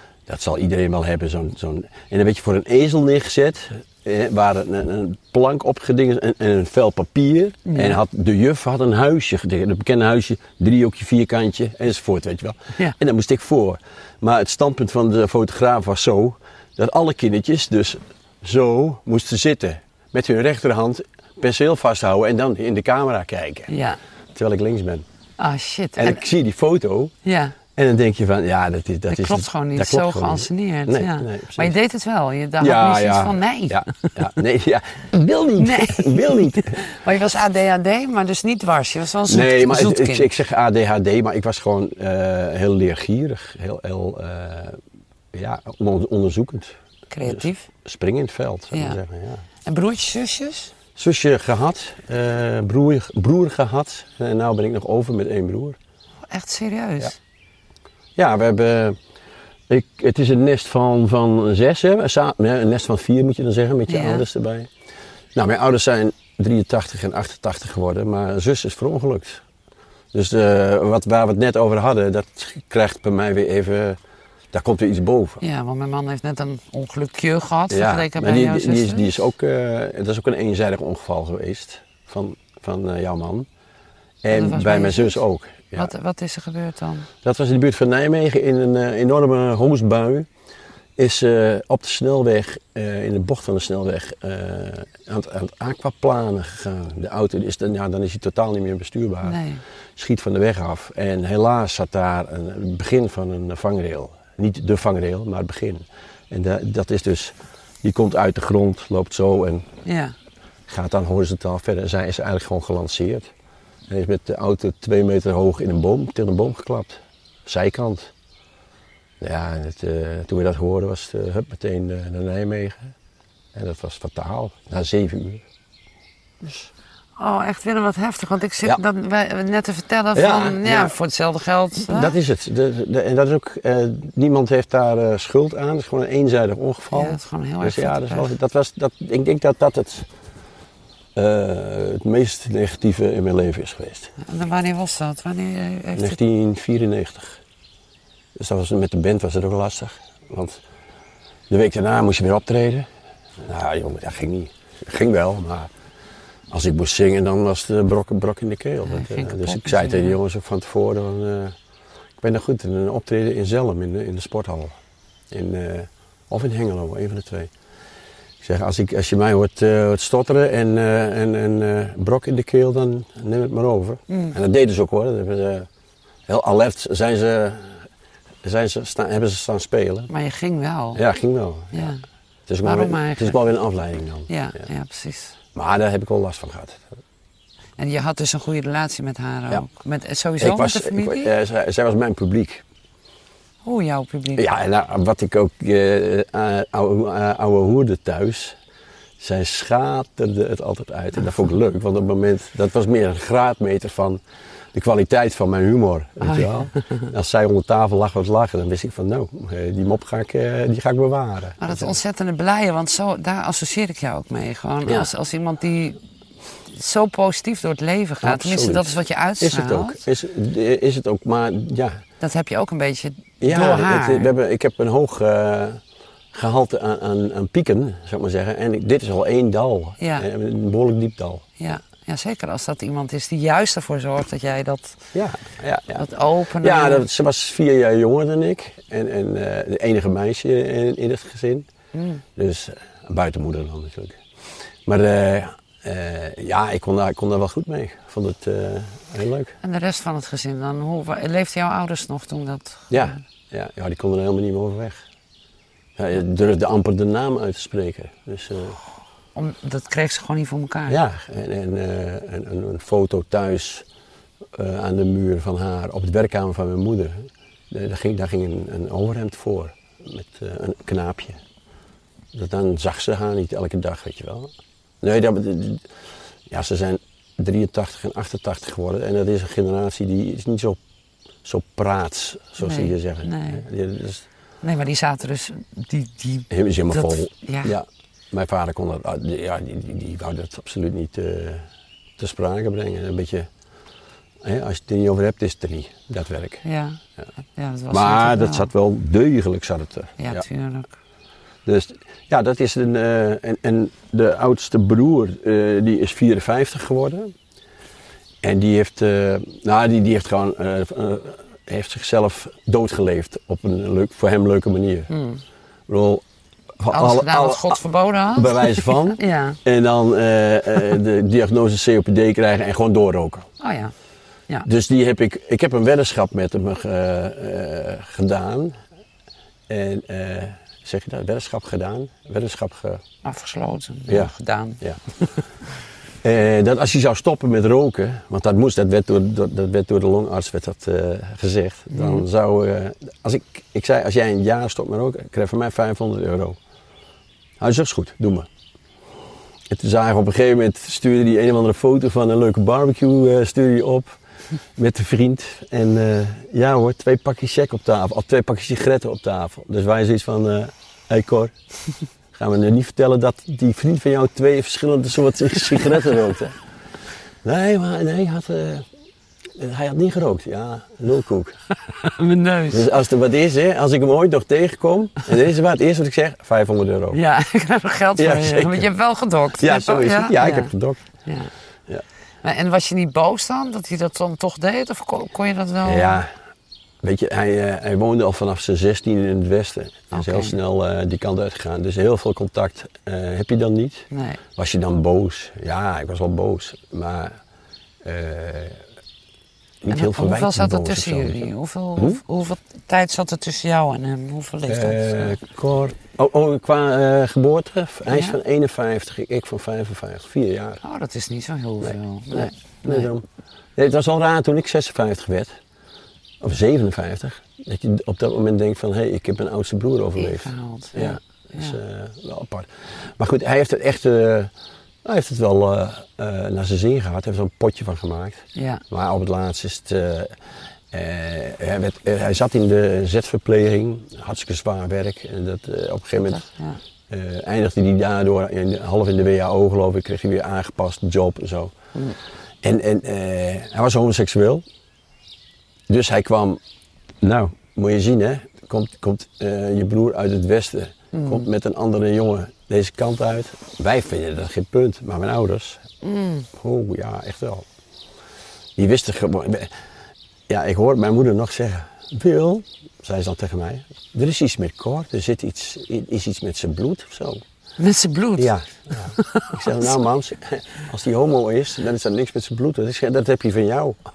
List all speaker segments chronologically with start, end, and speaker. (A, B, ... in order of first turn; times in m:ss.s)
0:00.3-0:23.7 A
0:07.7-0:08.0 B
0:23.7-0:24.0 B
0:24.3-0:25.0 A
0:25.4-0:26.2 B
0:26.0-0:27.1 A
0:27.2-0:27.6 B
0:27.7-0:31.7 A
0:29.1-0:33.9 B
0:32.6-0:36.8 A
0:35.6-0:40.3 B
0:39.3-0:44.8 A
0:45.3-0:49.4 A
0:47.1-0:47.7 B
0:48.7-0:49.0 B
0:49.6-0:50.7 B
0:50.9-0:55.8 A
0:56.2-0:57.2 B
0:58.2-0:59.0 A
0:59.7-1:04.7 A
1:03.9-1:04.2 B
1:05.3-1:09.4 A
1:10.1-1:14.0 A
1:14.5-1:15.4 A
1:15.4-1:19.1 B
1:17.7-1:23.5 A
1:24.2-1:25.9 A
1:24.3-1:25.2 B
1:25.8-1:27.1 B
1:27.2-1:30.3 A
1:31.0-1:39.4 A
1:39.2-1:39.6 B
1:40.0-1:49.7 A
1:49.8-1:50.2 B
1:50.7-1:53.3 A
1:53.9-1:58.1 A
1:59.2-2:02.9 A
2:03.5-2:05.4 A
2:06.4-2:06.7 A
2:07.2-2:12.2 B
2:10.2-2:10.9 A
2:11.9-2:20.1 A
2:16.9-2:18.3 B
2:21.2-2:24.1 A
2:24.2-2:26.2 B
2:26.0-2:27.4 A
2:28.4-2:30.6 A
2:31.5-2:32.9 A
2:33.4-2:35.7 A
2:36.5-2:41.6 A
2:38.8-2:40.2 B
2:42.2-2:44.8 A
2:45.3-2:47.5 A
2:48.4-2:55.7 A
2:54.1-2:54.3 B
2:56.3-2:57.9 A
2:58.4-3:00.1 A
3:00.1-3:01.0 B
3:00.9-3:01.9 A
3:01.7-3:02.0 B
3:02.5-3:04.3 A
3:02.6-3:03.4 B
3:04.3-3:05.4 B
3:05.5-3:06.9 A
3:07.8-3:11.3 B
3:10.4-3:12.6 A
3:13.6-3:14.4 B
3:14.3-3:18.6 A
3:19.2-3:24.2 A
3:24.7-3:32.0 A
3:26.2-3:26.6 B
3:31.6-3:36.0 B
3:36.7-3:40.0 B
3:38.2-3:42.0 A
3:42.2-3:44.3 B
3:43.4-3:45.8 A
3:46.3-3:51.4 A
3:50.0-3:50.2 B
3:51.6-3:55.0 B
3:55.1-3:56.1 A
3:56.0-3:57.0 B
3:56.6-4:01.7 A
4:01.9-4:02.2 B
4:02.3-4:04.2 A
4:04.9-4:09.6 A
4:09.6-4:13.1 B
4:12.9-4:15.0 A
4:16.0-4:18.8 A
4:19.3-4:21.0 B
4:20.9-4:23.8 A
4:24.6-4:31.4 A
4:32.3-4:35.8 A
4:36.5-4:40.8 A
4:41.4-4:44.2 A
4:42.6-4:43.6 B
4:44.6-4:47.7 B
4:46.5-4:51.6 A
4:52.2-4:53.5 A
4:54.4-4:56.6 A
4:56.6-4:57.0 B
4:57.6-4:58.7 B
4:57.9-5:00.4 A
5:00.2-5:00.9 B
5:01.6-5:07.3 A
5:08.4-5:15.1 A
5:15.1-5:15.4 B
5:15.9-5:16.2 A
5:16.8-5:17.8 A
5:16.9-5:19.6 B
5:18.3-5:23.5 A
5:23.6-5:23.9 B
5:24.6-5:28.8 A
5:29.7-5:33.0 A
5:33.2-5:34.8 B
5:34.1-5:35.0 A
5:36.2-5:46.6 A
5:41.9-5:42.2 B
5:47.6-5:48.5 A
5:49.7-5:54.2 A
5:54.8-6:01.5 A
6:02.3-6:06.6 A
6:07.4-6:08.8 A
6:09.6-6:11.6 A
6:12.0-6:12.9 B
6:12.7-6:17.2 A
6:17.1-6:20.7 B
6:18.2-6:18.9 A
6:19.6-6:21.0 A
6:22.4-6:26.2 B
6:25.8-6:26.3 A
6:27.0-6:37.4 A
6:30.1-6:30.6 B
6:34.1-6:34.4 B
6:38.0-6:38.8 A
6:39.8-6:42.2 A
6:39.9-6:45.4 B
6:44.7-6:50.8 A
6:48.1-6:48.4 B
6:50.8-6:53.1 B
6:51.8-6:53.2 A
6:53.8-6:55.5 A
6:56.4-7:04.5 A
7:00.2-7:01.8 B
7:05.0-7:10.3 A
7:08.6-7:08.8 B
7:10.9-7:16.4 A
7:16.3-7:16.8 B
7:17.1-7:21.7 A
7:22.6-7:24.6 A
7:25.9-7:26.6 A
7:27.2-7:35.8 A
7:31.1-7:31.4 B
7:36.0-7:36.4 B
7:36.5-7:37.6 A
7:38.8-7:39.7 A
7:40.5-7:47.4 A
7:47.8-7:48.5 B
7:48.4-7:54.0 A
7:49.2-7:50.0 B